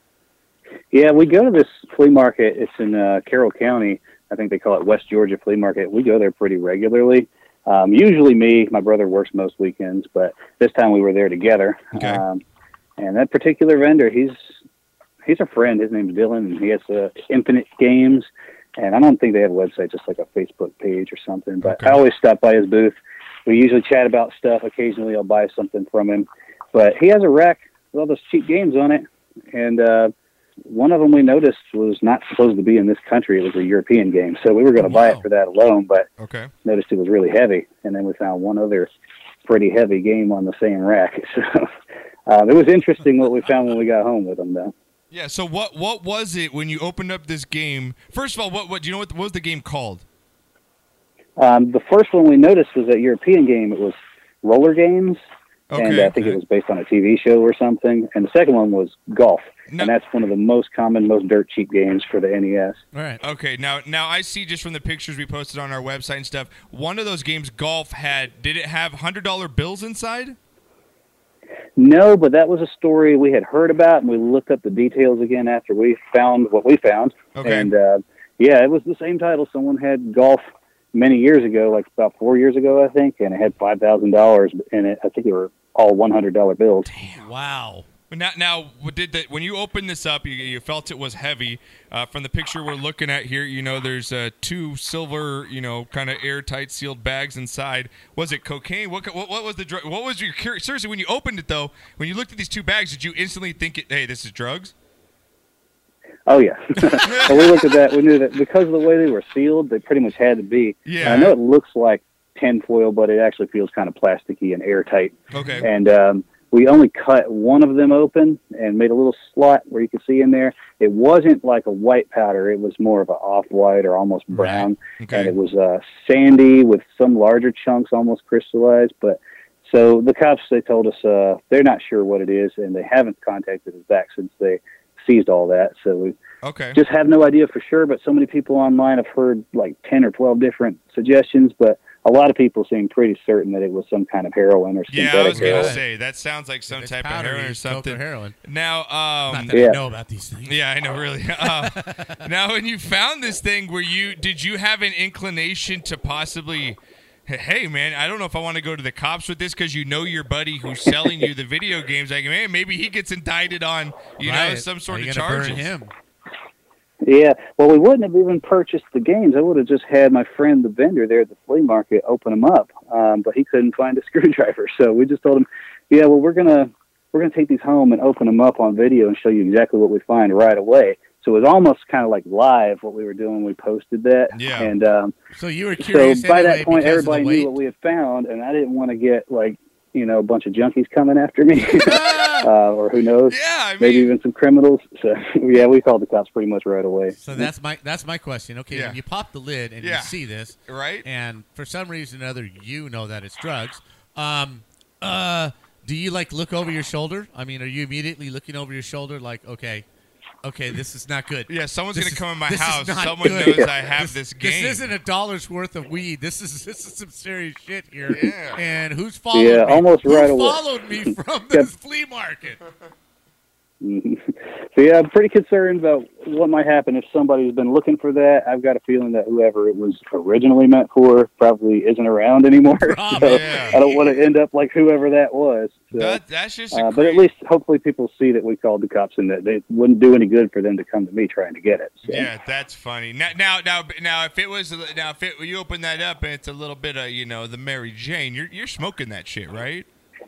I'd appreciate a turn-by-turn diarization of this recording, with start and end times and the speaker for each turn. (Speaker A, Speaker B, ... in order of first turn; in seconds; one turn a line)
Speaker A: 0.9-12.4
Speaker B: 11.9-12.2
Speaker A: 13.0-14.4
Speaker A: 15.2-30.1
Speaker B: 21.6-22.0
Speaker A: 30.7-36.1
Speaker C: 34.8-35.3
Speaker B: 36.2-36.5
Speaker A: 36.6-38.9
Speaker A: 39.4-41.7
Speaker A: 42.3-44.7
Speaker B: 45.1-50.0
Speaker A: 51.4-55.2
Speaker B: 55.7-56.4
Speaker A: 55.8-62.8
Speaker C: 62.9-63.2
Speaker B: 63.2-70.4
Speaker A: 71.8-86.9
Speaker B: 77.3-77.7
Speaker B: 86.8-87.2
Speaker C: 87.1-87.9
Speaker B: 88.1-104.7
Speaker A: 106.3-136.2
Speaker B: 107.0-107.7
Speaker B: 110.8-111.3
Speaker B: 115.3-115.7
Speaker C: 124.3-124.7
Speaker B: 125.0-125.3
Speaker B: 136.4-136.8
Speaker A: 136.7-145.8
Speaker B: 144.9-149.6
Speaker C: 145.3-145.8
Speaker C: 146.7-148.3
Speaker C: 149.3-150.6
Speaker A: 149.5-149.8
Speaker B: 150.4-165.7
Speaker C: 151.4-152.2
Speaker C: 164.2-165.9
Speaker A: 167.0-185.1
Speaker B: 184.3-184.7
Speaker C: 185.3-187.5
Speaker A: 185.8-197.5
Speaker C: 191.8-192.5
Speaker B: 193.3-194.1
Speaker C: 197.1-209.8
Speaker B: 198.7-199.0
Speaker B: 199.8-200.1
Speaker B: 200.7-201.1
Speaker C: 210.4-222.6
Speaker B: 211.5-214.9
Speaker A: 213.2-213.7
Speaker B: 218.1-218.6
Speaker A: 219.3-221.7
Speaker A: 223.8-236.2
Speaker C: 232.7-234.1
Speaker B: 233.2-233.8
Speaker B: 236.0-237.3
Speaker A: 236.7-242.3
Speaker B: 242.1-249.9